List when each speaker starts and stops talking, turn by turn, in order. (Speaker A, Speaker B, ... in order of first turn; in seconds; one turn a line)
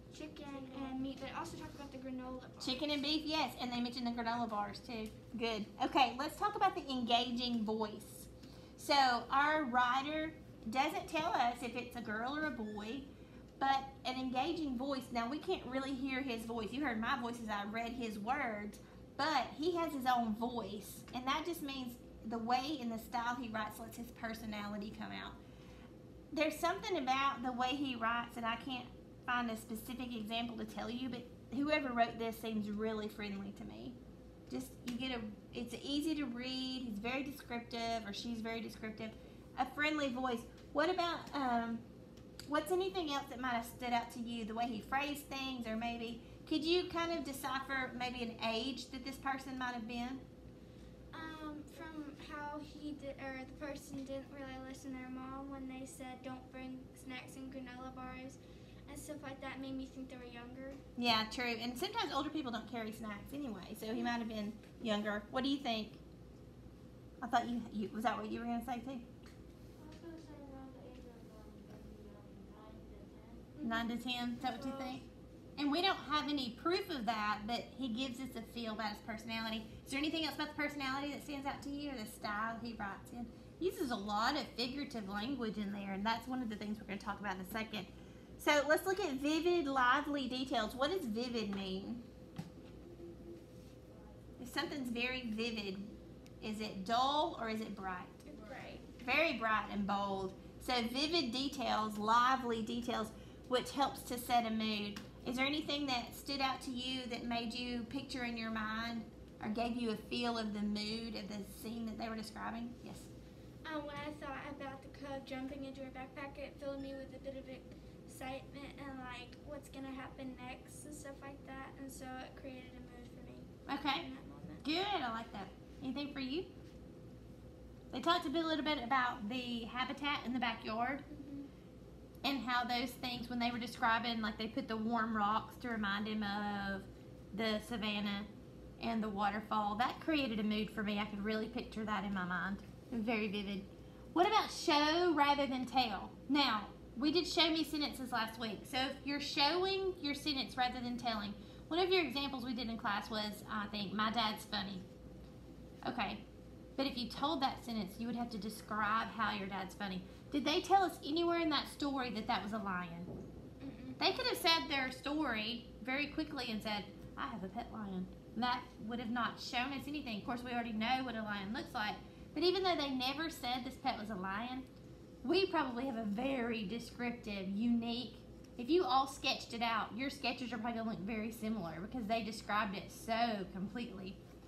Speaker A: 0.1-3.0
Speaker B: 2.6-25.4
Speaker B: 26.3-34.0
Speaker B: 34.5-41.8
Speaker B: 42.5-50.2
Speaker A: 51.1-60.8
Speaker B: 61.0-66.0
Speaker B: 67.2-69.0
Speaker C: 69.8-73.5
Speaker A: 73.6-75.0
Speaker B: 73.6-75.0
Speaker B: 75.6-92.0
Speaker B: 94.4-98.2
Speaker A: 98.3-98.9
Speaker B: 99.0-113.1
Speaker A: 113.6-124.6
Speaker B: 123.7-124.1
Speaker B: 124.6-126.5
Speaker B: 127.9-131.0
Speaker A: 131.1-131.5
Speaker B: 132.2-138.3
Speaker B: 138.8-154.8
Speaker B: 155.8-156.2
Speaker B: 156.8-163.1
Speaker A: 163.6-164.1
Speaker B: 164.0-174.7
Speaker B: 175.2-184.2